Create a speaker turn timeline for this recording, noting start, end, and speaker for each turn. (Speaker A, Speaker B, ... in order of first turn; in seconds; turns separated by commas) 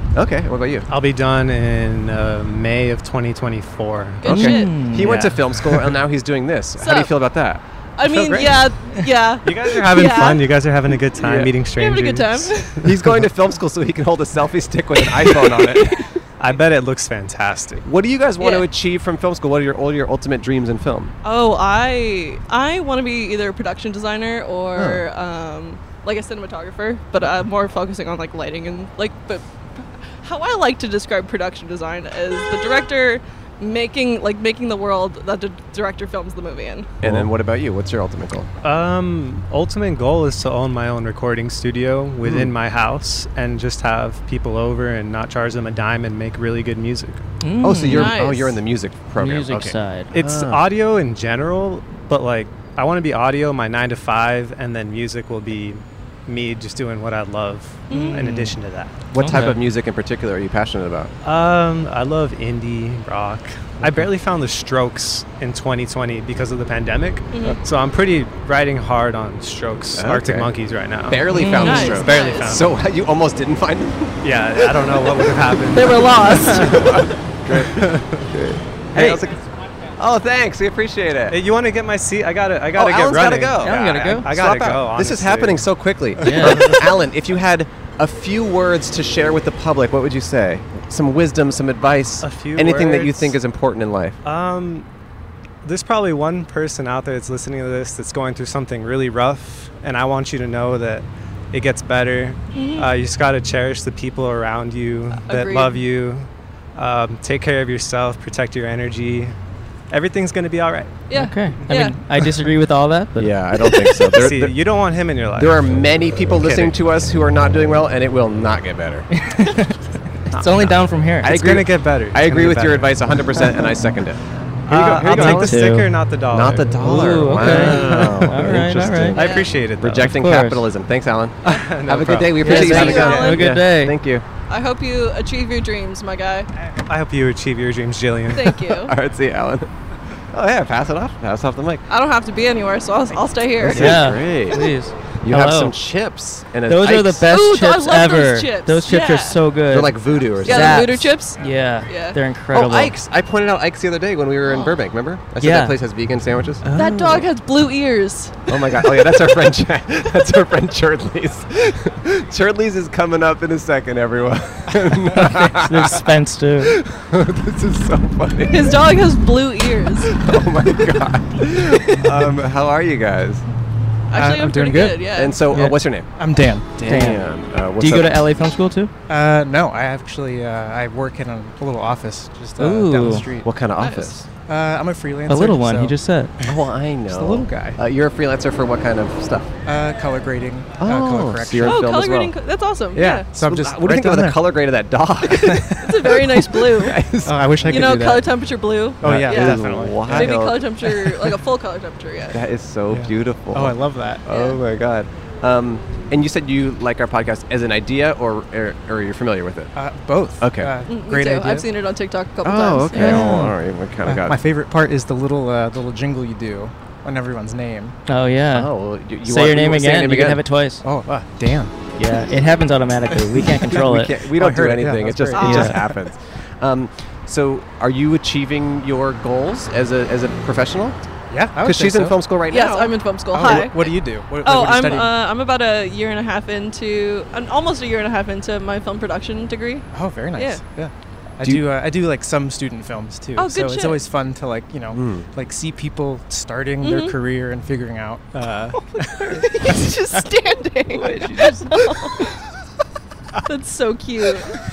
Speaker A: 0.1-0.9, Speaker B: 0.9-4.3, Speaker C: 4.2-4.8, Speaker A: 4.2-7.6, Speaker D: 4.3-5.3, Speaker B: 4.9-6.0, Speaker C: 6.8-7.1, Speaker C: 8.0-10.4, Speaker B: 8.1-8.7, Speaker B: 9.4-13.1, Speaker A: 11.2-11.6, Speaker C: 11.8-12.8, Speaker A: 12.8-16.2, Speaker C: 15.1-15.8, Speaker B: 16.4-17.8, Speaker A: 17.8-21.1, Speaker C: 18.4-18.7, Speaker C: 21.2-36.9, Speaker A: 24.8-25.0, Speaker B: 37.0-37.3, Speaker A: 37.0-38.5, Speaker B: 38.6-47.2, Speaker A: 42.2-42.5, Speaker D: 47.4-48.2, Speaker A: 47.6-50.6, Speaker C: 47.9-48.6, Speaker D: 49.2-50.1, Speaker B: 50.1-59.4, Speaker C: 57.9-58.2, Speaker D: 57.9-58.6, Speaker A: 59.1-61.1, Speaker D: 59.2-59.6, Speaker B: 61.2-72.7, Speaker A: 63.8-64.1, Speaker C: 67.3-67.6, Speaker A: 70.0-70.5, Speaker A: 71.1-79.4, Speaker D: 71.3-72.0, Speaker C: 71.6-72.7, Speaker B: 74.2-78.3, Speaker D: 75.8-76.9, Speaker D: 79.0-79.2, Speaker A: 80.0-81.4, Speaker B: 81.3-85.7, Speaker A: 82.7-94.2, Speaker D: 83.6-84.3, Speaker D: 86.2-86.8, Speaker B: 86.3-86.8, Speaker B: 92.2-93.4, Speaker B: 94.2-94.9, Speaker B: 95.7-109.3, Speaker C: 102.5-102.9, Speaker C: 105.2-105.8, Speaker B: 109.9-111.0, Speaker C: 111.1-112.0, Speaker D: 111.1-114.1, Speaker A: 113.2-114.6, Speaker B: 114.1-116.8, Speaker A: 115.4-119.1, Speaker D: 119.2-119.8, Speaker D: 120.3-121.3, Speaker B: 120.3-120.7, Speaker A: 121.2-125.7, Speaker B: 121.2-123.0, Speaker B: 124.7-128.6, Speaker D: 125.0-125.9, Speaker A: 126.3-134.2, Speaker D: 126.8-129.3, Speaker B: 129.1-130.2, Speaker C: 129.2-129.5, Speaker D: 130.1-130.7, Speaker B: 131.4-133.4, Speaker D: 132.4-134.0, Speaker C: 132.5-133.4, Speaker C: 134.5-136.5, Speaker B: 136.9-138.6, Speaker C: 138.3-138.9, Speaker A: 138.7-139.7, Speaker A: 140.3-141.9, Speaker C: 141.9-144.0, Speaker A: 143.6-144.7, Speaker D: 143.7-145.8, Speaker A: 145.2-147.3, Speaker D: 146.7-152.9, Speaker C: 147.3-149.4, Speaker A: 149.7-151.1, Speaker C: 150.4-152.2, Speaker A: 152.5-156.6, Speaker C: 154.4-154.8, Speaker D: 155.4-155.8, Speaker D: 156.6-157.2, Speaker C: 156.7-158.5, Speaker A: 158.5-166.1, Speaker D: 165.4-166.8, Speaker A: 166.6-168.9, Speaker C: 168.5-170.1, Speaker A: 170.1-173.5, Speaker C: 174.1-175.4, Speaker E: 174.2-175.1, Speaker A: 175.1-176.1, Speaker E: 176.2-176.7, Speaker A: 176.8-178.2, Speaker D: 176.8-177.3, Speaker D: 177.8-178.9, Speaker E: 179.1-183.5, Speaker D: 182.6-183.3, Speaker A: 183.4-184.3, Speaker C: 183.8-184.2, Speaker E: 184.4-187.8, Speaker D: 185.3-186.3, Speaker A: 186.4-189.5, Speaker E: 189.7-191.9, Speaker A: 190.8-192.3, Speaker C: 191.6-193.3, Speaker E: 193.0-194.5, Speaker A: 193.0-198.0, Speaker E: 195.5-195.8, Speaker C: 195.8-197.0, Speaker E: 197.2-198.3, Speaker C: 197.7-202.4, Speaker E: 199.0-200.4, Speaker A: 199.0-201.2, Speaker A: 202.3-209.7, Speaker E: 202.9-204.2, Speaker C: 204.3-204.6, Speaker E: 209.8-211.7, Speaker A: 210.4-210.7, Speaker C: 210.9-213.3, Speaker A: 212.4-214.4, Speaker D: 213.0-213.5, Speaker E: 213.1-213.5, Speaker E: 214.0-218.0, Speaker D: 218.1-218.7, Speaker A: 218.5-220.4, Speaker D: 219.2-220.8, Speaker E: 220.8-221.8, Speaker D: 222.0-224.1, Speaker A: 223.7-231.0, Speaker E: 224.3-225.8, Speaker C: 225.3-225.8, Speaker D: 225.4-225.8, Speaker E: 231.3-232.2, Speaker A: 231.6-233.7, Speaker C: 232.5-240.6, Speaker E: 233.3-235.2, Speaker E: 239.9-249.8, Speaker A: 241.4-241.7, Speaker C: 243.4-244.1, Speaker A: 244.9-245.3, Speaker C: 246.8-247.2, Speaker C: 248.9-252.2, Speaker D: 250.9-251.7, Speaker C: 253.5-254.5